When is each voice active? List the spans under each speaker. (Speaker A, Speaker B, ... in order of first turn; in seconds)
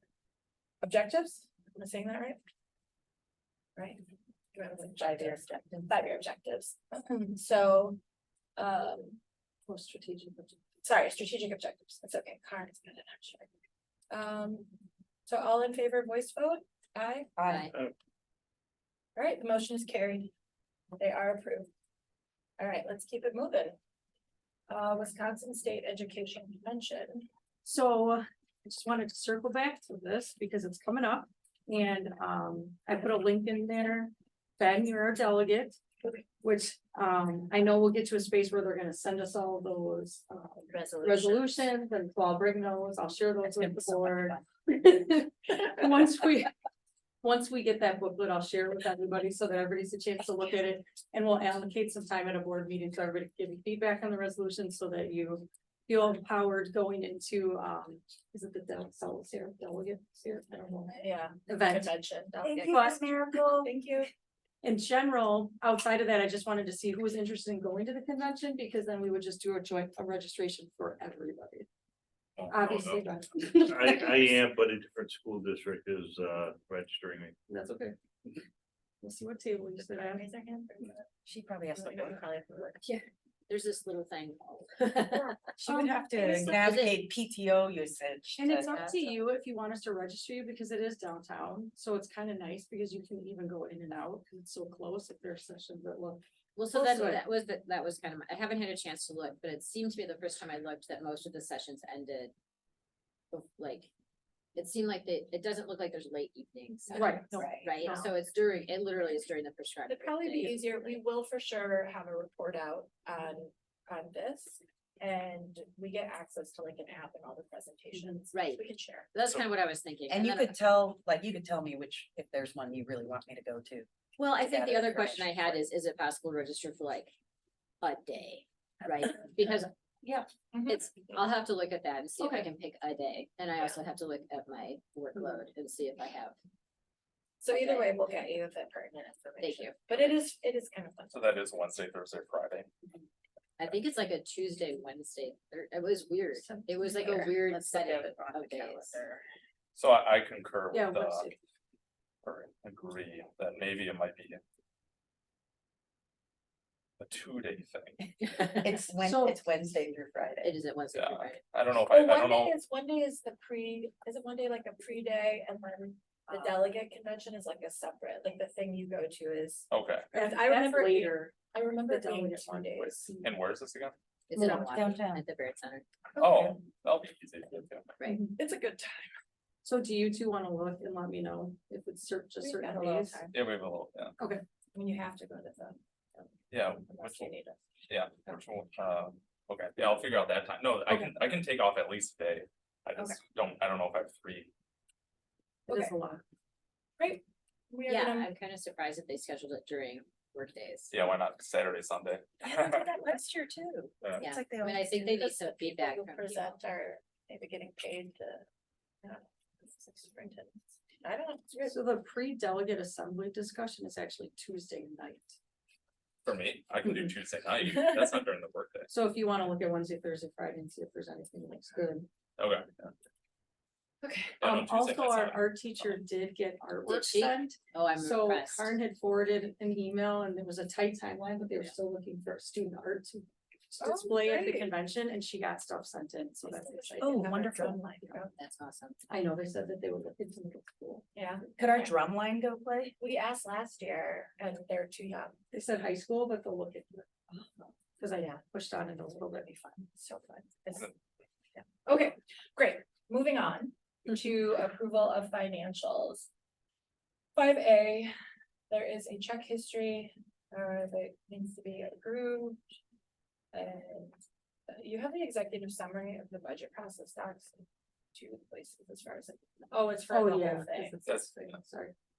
Speaker A: 0.8-2.4, 3.8-4.0, 4.5-8.0, 8.6-9.2, 10.8-13.5, 14.1-14.7, 15.2-17.3, 19.1-20.3, 21.0-21.7, 22.6-23.8, 24.7-27.2, 60.9-64.1, 80.0-81.2, 81.7-82.8, 106.9-107.4, 109.9-119.1, 130.5-130.8, 137.4-141.3, 161.9-173.1, 178.2-179.1, 182.4-183.3, 184.7-187.6, 195.7-195.9, 197.0-198.3, 205.4-208.4, 209.0-211.8, 224.0-224.4, 233.8-234.7, 236.4-238.3, 241.1-241.5, 243.0-245.3, 249.9-250.9, 251.8-256.3, 257.3-258.1, 258.7-262.6, 263.5-264.2, 264.7-270.9
Speaker B: 5.0-5.9, 17.4-17.7, 41.0-41.3, 43.5-44.4, 62.4-63.7, 81.2-82.3, 85.5-88.8, 107.3-107.9, 120.1-125.3, 146.6-149.2, 158.6-160.5, 174.3-175.2, 202.4-205.5, 237.0-237.8, 241.6-242.9
Speaker C: 9.7-10.6, 27.6-35.8, 36.4-46.5, 47.2-61.9, 62.6-63.0, 64.6-71.7, 72.5-74.2, 77.5-78.0, 79.0-80.2, 85.7-86.6, 88.3-97.2, 106.9-108.0, 132.2-132.5, 150.7-151.4, 159.0-159.4, 170.1-171.3, 171.9-173.3, 179.6-183.3, 190.9-191.3, 195.7-196.2, 211.6-215.4, 216.8-217.1, 218.9-222.1, 224.4-238.2, 239.1-241.1, 245.5-247.3, 248.0-249.9, 270.1-271.9
Speaker D: 17.4-17.7, 82.8-85.4, 86.2-87.0, 88.7-89.1, 96.5-102.3, 103.3-103.9, 104.5-111.0, 118.3-120.5, 124.2-127.1, 127.8-129.7, 130.7-136.3, 137.5-138.0, 139.4-140.1, 143.6-149.0, 158.2-158.7, 160.4-161.4, 174.3-175.8, 197.9-201.0, 204.2-206.6, 226.9-228.7, 238.4-239.0
Speaker E: 72.4-73.1, 141.1-142.7, 149.8-151.3, 152.2-154.4, 157.0-158.0, 160.9-162.6, 169.7-170.1, 172.8-173.9, 176.2-177.9, 183.3-184.2, 186.5-187.3, 187.9-194.5, 200.9-202.9, 204.0-204.3, 216.2-218.9, 222.4-222.9, 224.4-225.4, 271.0-271.6
Speaker F: 73.6-77.3